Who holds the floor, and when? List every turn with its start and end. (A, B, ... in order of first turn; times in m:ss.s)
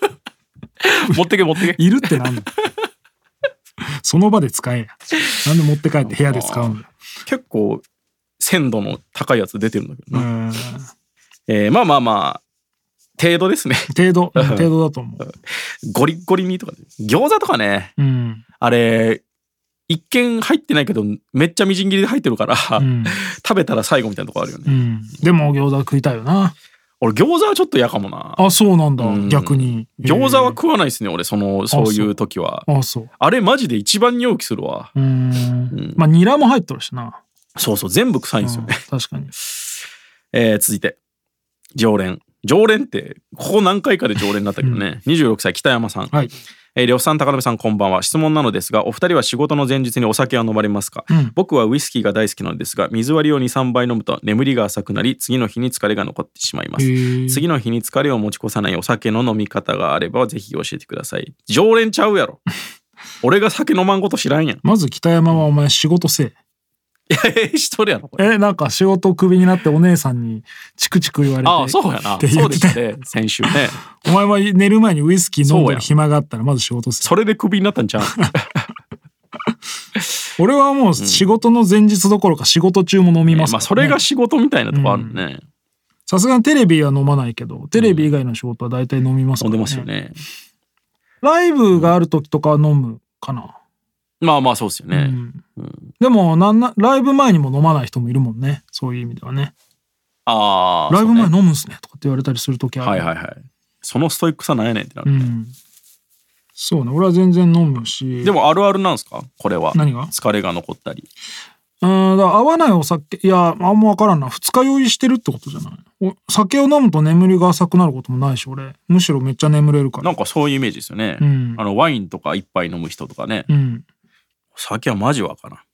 0:00.8-0:01.8 A
0:01.7-0:02.5 B
0:04.0-0:06.9 B
0:06.0-0:07.8 A
0:08.4-0:10.3 A
0:10.1-0:10.9 B
0:11.5-0:12.4 A
0:13.2-0:14.7 A
0:13.9-0:15.3 B
0:15.2-0:17.9 A
0:18.0-0:18.4 B
0:18.6-0:19.2 A
0:19.9-0:24.8 A
0:22.8-0:23.2 B
0:24.6-0:26.5 B
0:27.0-0:28.4 A
0:28.4-0:30.6 B
0:29.0-0:32.7 A
0:31.7-0:32.1 B
0:32.7-0:33.1 B
0:33.2-0:34.9 A
0:34.9-0:37.2 B
0:35.7-0:36.0 A
0:37.6-0:38.8 A
0:38.4-0:39.3 B
0:40.3-0:41.0 A
0:41.7-0:46.2 A
0:46.8-1:02.4 A
0:51.1-0:51.3 B
0:56.8-0:57.4 B
1:03.2-1:04.6 A
1:04.6-1:06.3 B
1:07.1-1:08.3 A
1:08.2-1:12.8 B
1:11.4-1:13.8 A
1:14.0-1:17.1 B
1:15.4-1:15.9 A
1:17.0-1:18.6 A
1:20.4-1:24.0 B
1:21.0-1:21.3 A
1:23.2-1:25.4 A
1:24.7-1:25.2 B
1:26.1-1:29.9 B
1:27.7-1:28.1 A
1:29.4-1:30.2 A
1:31.2-1:33.6 B
1:34.2-1:35.9 A
1:34.9-1:35.4 B
1:36.0-1:39.5 B
1:40.2-1:41.3 A
1:40.9-1:43.1 B
1:42.8-1:45.3 A
1:45.0-1:45.5 B
1:46.6-1:48.3 B
1:48.2-1:51.1 A
1:49.7-1:50.1 B
1:51.8-2:00.1 B
2:00.0-2:03.5 A
2:01.2-2:01.6 B
2:03.5-2:03.8 B
2:04.6-2:05.6 A